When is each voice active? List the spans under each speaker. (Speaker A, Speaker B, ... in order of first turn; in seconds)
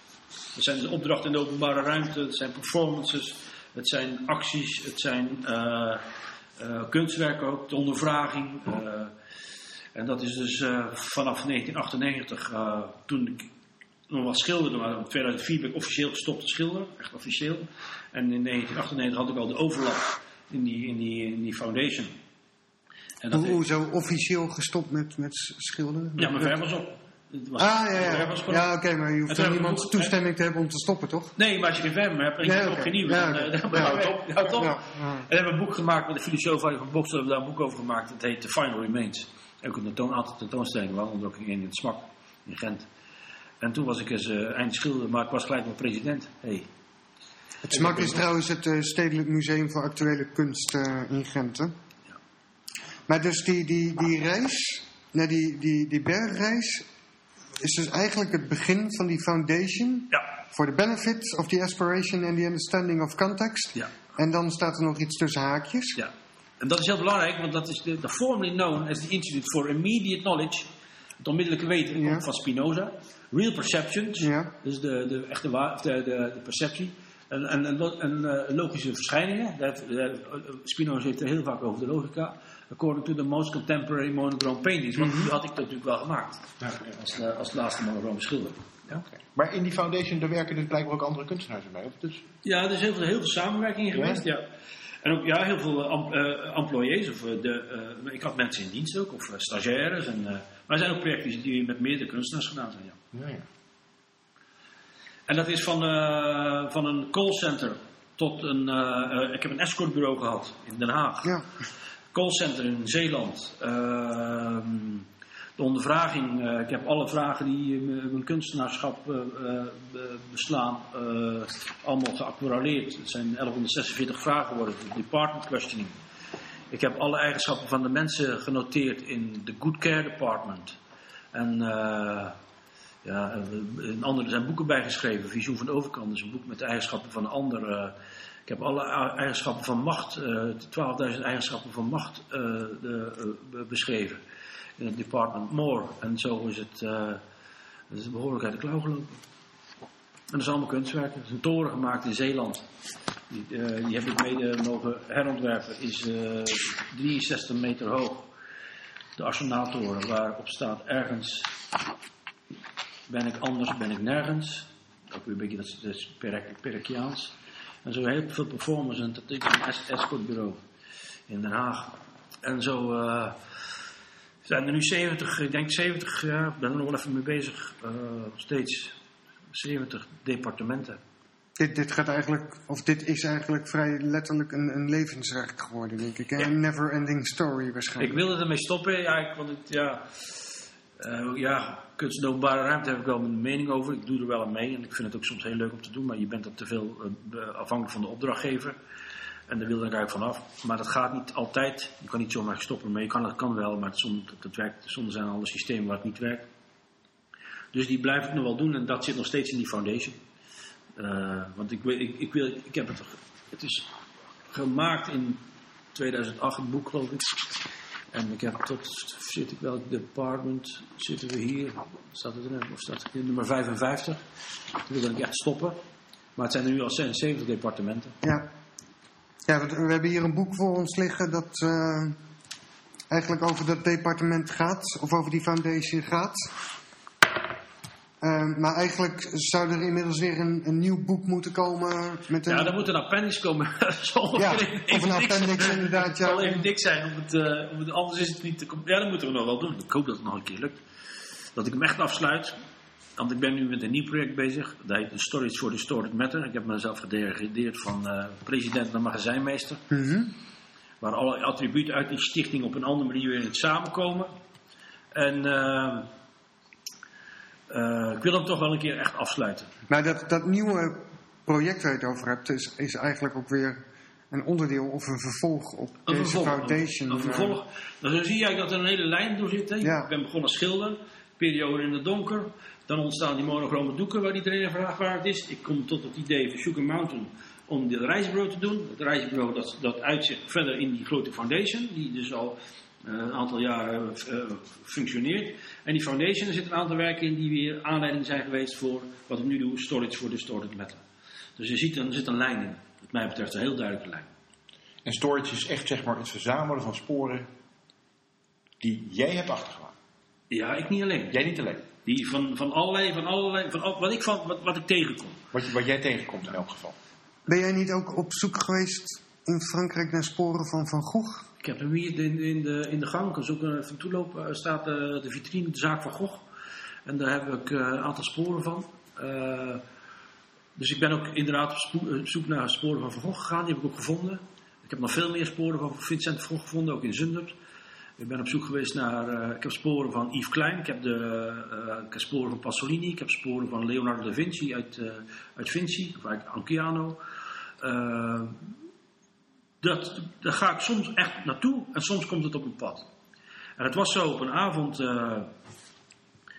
Speaker A: 0.5-6.0, 6.6-9.1, 9.9-13.5, 14.1-22.1, 23.2-23.6, 26.2-28.7, 29.3-30.1, 31.4-42.9, 43.6-46.7, 66.0-70.7, 71.2-88.6, 92.4-94.4, 95.0-103.0, 105.3-111.5, 112.1-115.0, 115.6-125.9, 126.7-130.8, 131.3-132.3, 133.0-137.9, 138.4-144.2, 144.8-147.2, 147.9-149.2, 150.3-152.7, 153.3-158.3, 159.2-161.5, 163.1-170.6, 171.3-173.4, 174.4-178.9, 179.5-181.0, 188.0-198.8, 199.5-206.4, 207.7-210.2, 210.9-213.9, 214.5-215.4, 215.9-217.6, 218.1-224.2, 224.8-225.8, 226.3-228.2, 242.4-250.8, 251.6-252.5, 253.2-259.8, 261.0-264.3, 265.1-266.1, 267.7-269.7, 276.1-301.0, 301.6-304.3, 310.5-311.4, 312.0-315.4, 321.6-326.4, 327.1-329.8, 330.8-337.5, 338.2-347.2, 347.8-348.6, 349.8-353.1, 353.8-355.5
Speaker B: 23.3-26.5, 27.6-31.3, 32.4-35.3, 47.7-51.7, 53.1-56.9, 57.6-66.0, 72.0-72.2, 74.2-74.5, 181.6-188.2, 228.2-228.5, 229.4-232.2, 233.1-236.5, 238.2-242.8, 244.3-246.7, 259.9-260.3, 269.9-277.6, 279.8-280.1, 317.5-321.5
Speaker C: 47.7-48.1, 88.9-92.2, 93.9-94.2, 103.1-103.4, 305.0-307.5, 308.8-309.9, 311.3-311.8, 315.5-316.9